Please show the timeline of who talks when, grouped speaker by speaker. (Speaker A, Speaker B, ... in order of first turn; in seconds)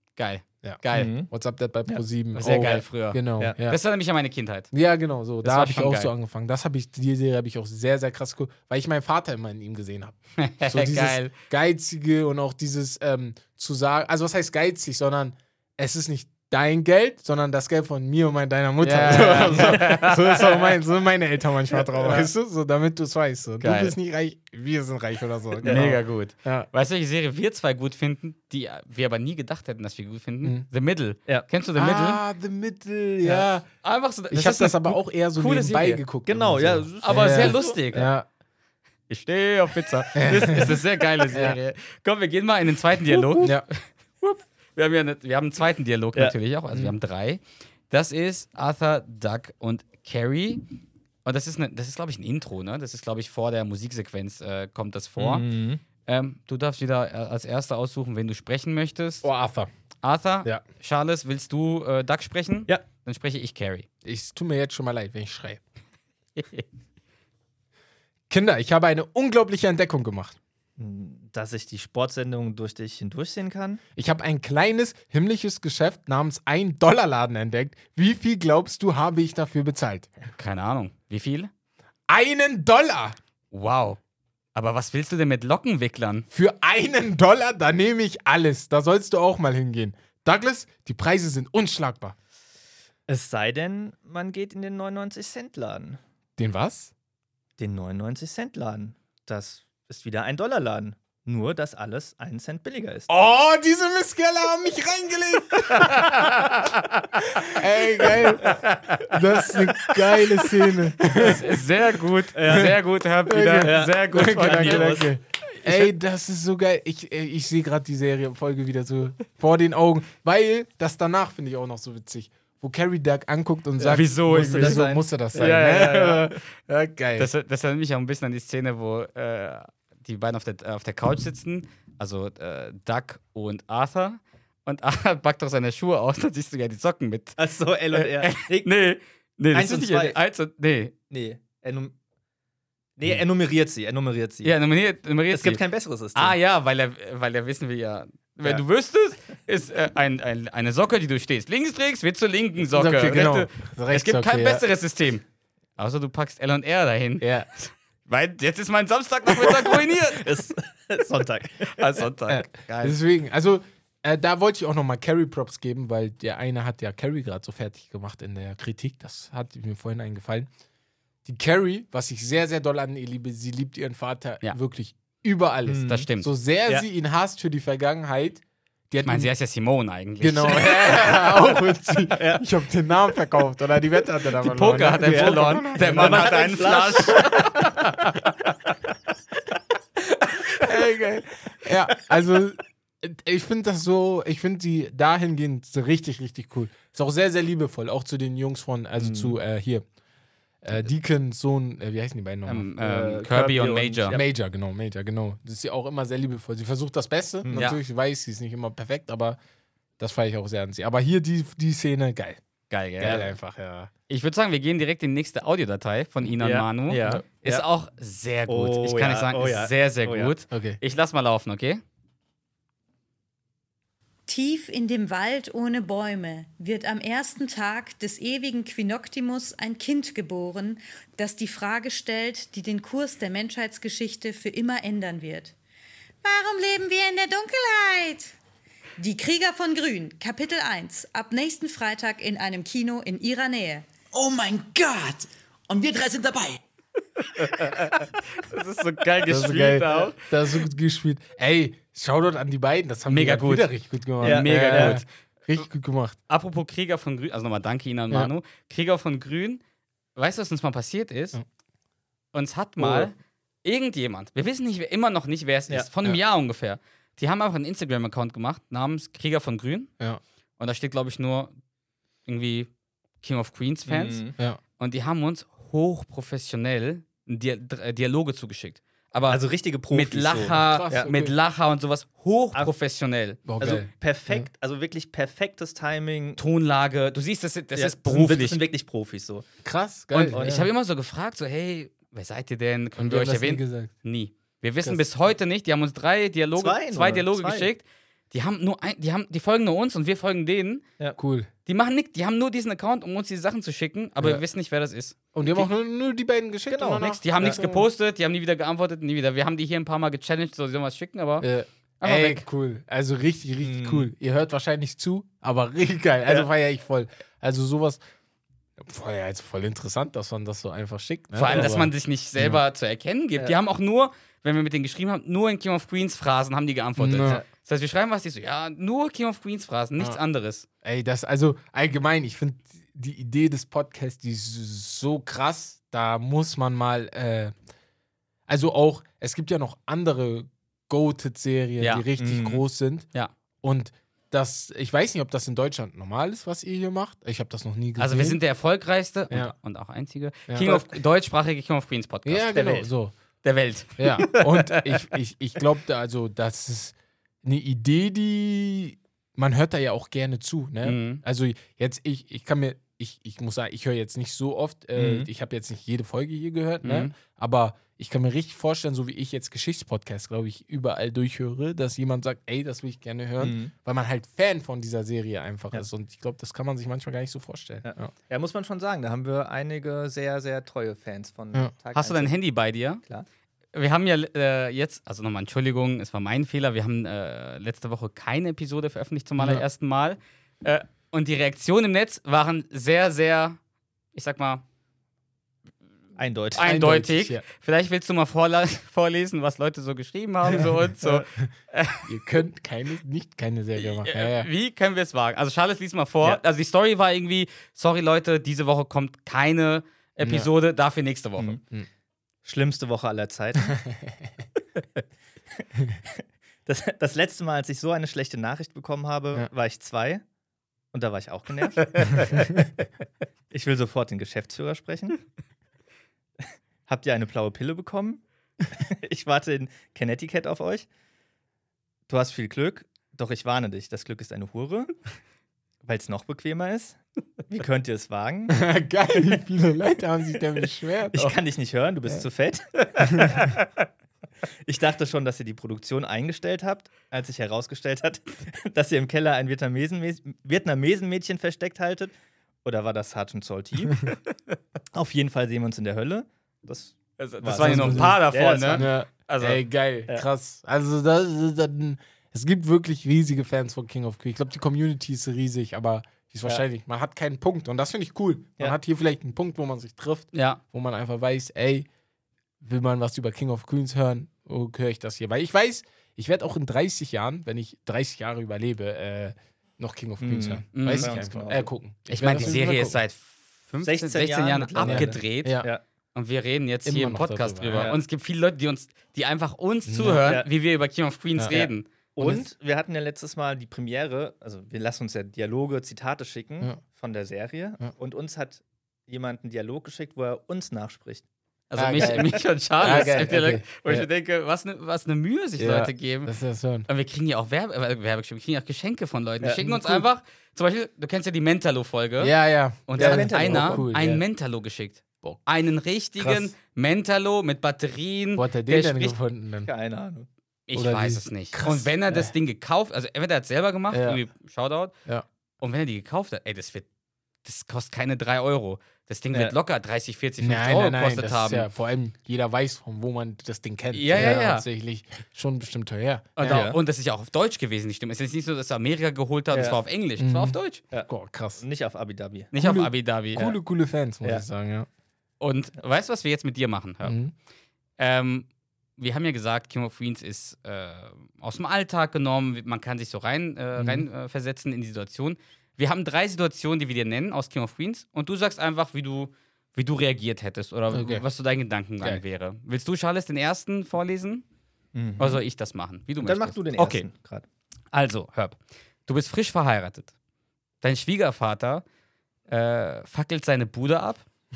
Speaker A: 0.2-1.1, 2.4-4.7, 5.4-6.1, 10.4-11.3, 18.8-20.6, 23.6-24.0, 25.6-32.2, 33.8-36.0, 37.0-38.1, 39.1-50.7, 51.2-55.5, 56.0-59.3, 60.0-63.9, 66.4-66.7, 80.3-81.5, 83.5-84.0, 84.5-86.3, 105.7-107.5, 108.0-110.3, 111.0-115.0, 115.5-115.9, 123.8-126.4, 127.2-137.4, 137.9-140.9, 144.4-145.6, 146.1-155.2, 155.8-160.2, 161.7-163.0, 175.8-176.3, 179.1-181.4, 184.4-187.8, 202.5-204.2, 212.7-213.3, 214.1-221.8, 247.4-250.3, 253.1-255.0, 256.3-259.6, 260.2-261.4, 262.3-269.9, 270.6-271.5, 272.3-272.7, 273.2-274.3, 274.8-283.4, 286.4-288.6, 290.1-300.8, 301.7-305.6, 307.0-311.5, 312.0-312.4, 321.3-330.7, 341.8-342.1, 348.0-352.5, 353.4-354.3, 360.8-361.2, 366.8-367.1, 381.9-383.0, 383.7-393.6, 394.1-394.6, 396.6-402.1, 403.8-411.6, 457.2-459.6, 470.3-470.6, 480.8-481.1, 482.1-485.6, 486.1-491.9, 501.7-506.3, 506.9-512.3, 512.9-519.2, 520.7-524.9, 525.6-526.9, 527.4-531.7, 533.9-534.7, 536.4-540.8, 542.5-543.5, 545.4-547.2, 548.0-564.4, 565.2-567.1, 567.9-570.1, 570.8-571.8, 572.5-574.2
Speaker B: 0.6-3.8, 4.7-26.7, 31.8-33.7, 34.3-38.3, 40.1-40.7, 41.3-41.6, 43.4-43.7, 46.7-47.0, 59.2-59.7, 64.0-65.6, 68.3-70.4, 74.0-80.1, 82.1-83.2, 86.3-92.1, 96.4-96.9, 103.1-106.2, 107.5-108.6, 109.1-111.5, 112.5-127.3, 152.7-154.6, 157.2-157.5, 162.3-170.5, 171.2-179.3, 180.2-186.4, 187.7-188.2, 190.6-199.8, 200.6-202.7, 204.1-209.4, 210.0-212.4, 213.0-213.9, 220.5-220.8, 249.3-256.2, 280.5-281.4, 283.5-284.5, 289.6-290.6, 293.0-293.9, 301.2-301.5, 305.3-307.9, 311.4-318.0, 318.8-322.6, 327.0-327.4, 330.8-337.5, 338.5-343.1, 343.6-348.4, 349.3-349.6, 350.5-350.8, 352.2-353.1, 354.0-378.1, 389.4-389.7, 396.6-397.4, 402.0-404.5, 410.2-410.5, 422.2-422.7, 438.5-441.3, 457.5-458.2, 458.7-471.9, 472.6-483.0, 484.8-485.7, 486.9-487.9, 489.9-490.2, 492.2-492.4, 501.8-504.1, 505.6-506.9, 509.6-510.1, 512.2-514.2, 516.2-516.5, 518.4-519.7, 520.7-522.3, 523.9-524.2, 530.4-536.6, 540.2-541.6, 542.5-544.9, 547.0-547.3, 553.8-554.1, 560.9-561.3
Speaker C: 0.9-1.3, 19.5-19.8, 22.0-22.3, 25.6-25.9, 36.3-37.8, 43.1-43.5, 55.2-55.8, 70.8-73.8, 93.1-96.0, 97.6-103.1, 112.3-112.8, 113.6-115.1, 123.8-125.7, 137.4-138.7, 139.5-140.2, 141.1-141.9, 143.0-144.5, 145.3-146.4, 160.2-162.0, 175.7-176.1, 182.2-182.4, 185.0-187.5, 199.0-199.4, 202.8-204.3, 216.4-217.6, 218.5-220.3, 254.2-255.0, 262.8-263.1, 273.9-274.4, 279.3-281.1, 283.6-286.4, 287.7-289.5, 290.3-290.6, 296.6-297.7, 306.7-307.6, 313.6-314.1, 327.2-327.4, 342.2-342.6, 352.5-352.9, 354.4-354.7, 365.0-365.3, 373.4-373.7, 377.8-382.4, 396.2-396.7, 412.4-413.8, 416.1-420.2, 420.9-422.6, 423.5-425.2, 426.4-428.2, 428.8-430.9, 432.1-434.9, 435.8-438.7, 441.1-443.7, 444.7-452.1, 452.6-454.1, 454.9-458.9, 480.2-481.7, 483.8-485.8, 491.5-501.2, 502.0-503.4, 513.0-513.9, 519.7-520.3, 536.5-536.8, 539.5-539.8, 540.9-542.5, 565.0-565.4, 566.2-567.5
Speaker D: 224.3-235.6, 236.2-238.3, 239.0-243.9
Speaker E: 244.1-246.6